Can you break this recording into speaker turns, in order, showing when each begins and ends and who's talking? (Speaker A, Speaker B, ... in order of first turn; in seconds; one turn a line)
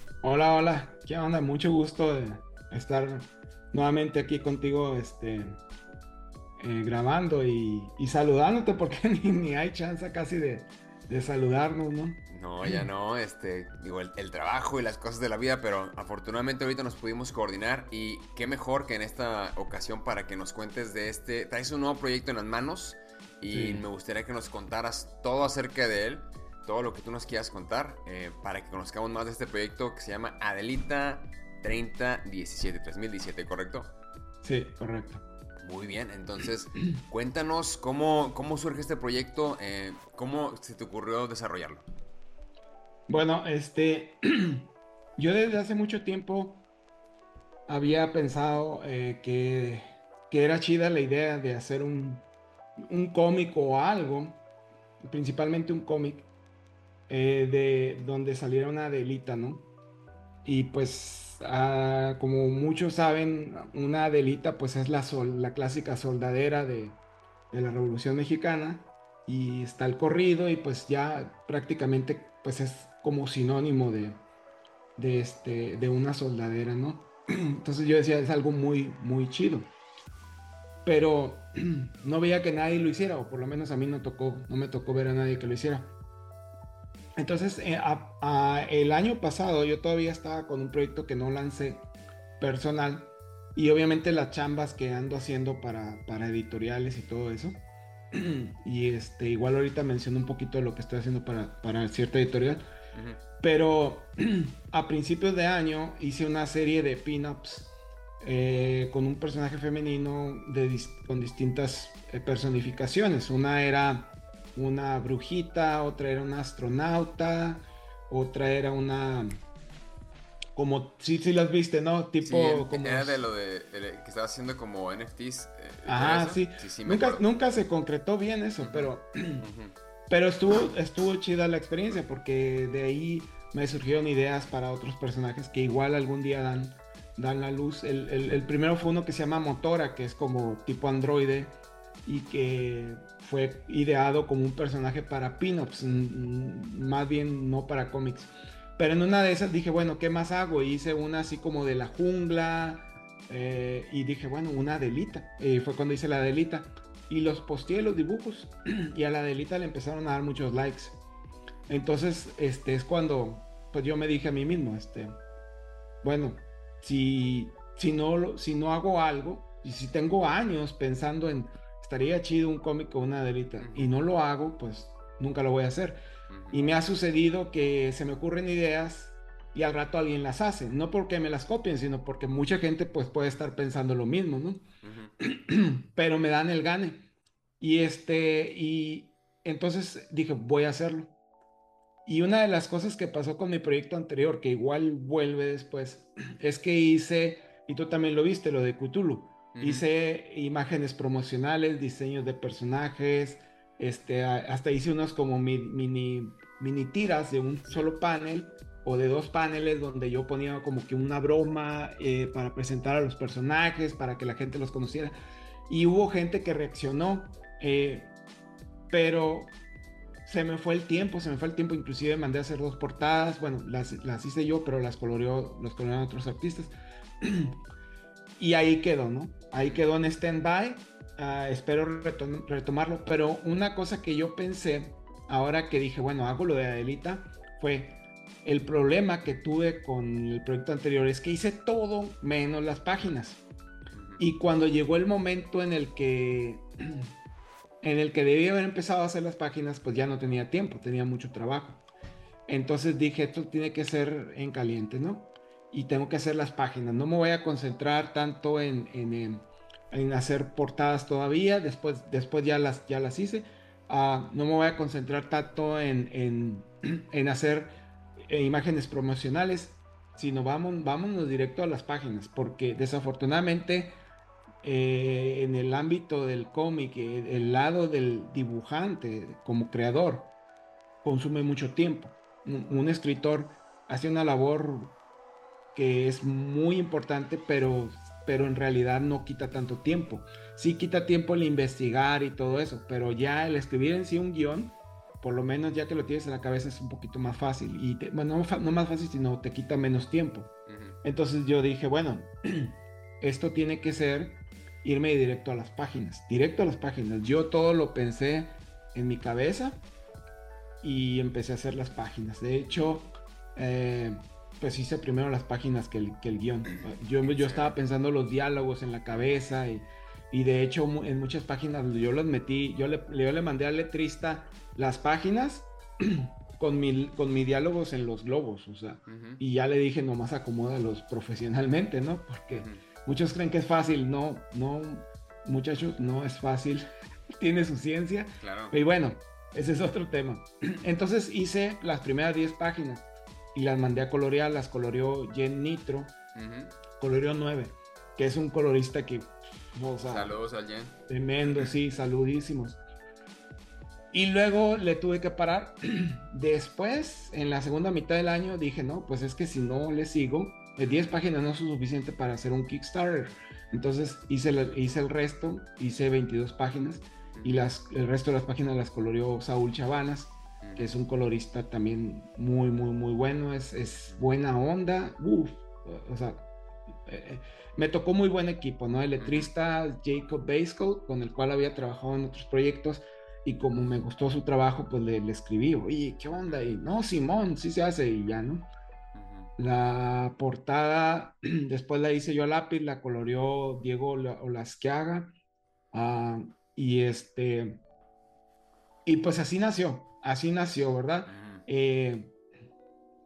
Speaker A: 0.2-5.6
Speaker A: 6.6-12.8
Speaker B: 12.3-33.9
Speaker A: 23.5-23.8
Speaker A: 34.4-35.2
Speaker B: 35.6-41.9
Speaker A: 43.1-46.6
Speaker A: 47.7-52.2
Speaker A: 52.8-54.4
Speaker A: 55.0-56.3
Speaker A: 57.1-59.7
Speaker A: 60.4-67.0
Speaker A: 67.5-74.2
Speaker A: 75.0-79.7
Speaker A: 80.8-85.9
Speaker A: 87.2-91.9
Speaker A: 92.4-102.6
Speaker B: 102.9-103.2
Speaker A: 103.4-119.4
Speaker A: 120.5-123.2
Speaker B: 122.2-127.2
Speaker A: 125.8-129.4
Speaker B: 128.6-129.7
Speaker A: 130.1-161.0
Speaker A: 161.7-165.2
Speaker A: 166.0-184.6
Speaker B: 173.6-173.9
Speaker B: 176.3-176.6
Speaker B: 184.8-185.1
Speaker A: 185.2-191.1
Speaker A: 192.1-215.1
Speaker B: 199.5-199.8
Speaker A: 215.7-218.1
Speaker A: 218.9-219.5
Speaker A: 220.2-227.6
Speaker A: 228.4-243.4
Speaker B: 229.6-229.8
Speaker B: 243.9-244.2
Speaker A: 244.2-247.1
Speaker A: 247.8-251.8
Speaker A: 252.5-274.0
Speaker A: 274.6-280.3
Speaker A: 281.0-284.9
Speaker A: 285.7-300.5
Speaker B: 300.7-301.0
Speaker A: 301.0-309.8
Speaker A: 310.8-336.8
Speaker B: 316.8-317.8
Speaker B: 329.1-329.4
Speaker B: 332.5-332.8
Speaker A: 337.4-346.1
Speaker B: 338.4-338.8
Speaker B: 346.3-346.7
Speaker A: 347.0-350.4
Speaker B: 350.0-351.0
Speaker A: 351.1-352.8
Speaker A: 354.1-376.5
Speaker B: 360.8-361.1
Speaker B: 370.6-370.9
Speaker A: 377.1-388.7
Speaker B: 379.2-379.5
Speaker B: 389.1-389.5
Speaker A: 389.6-395.3
Speaker A: 395.9-397.8
Speaker A: 399.1-402.3
Speaker B: 401.3-401.6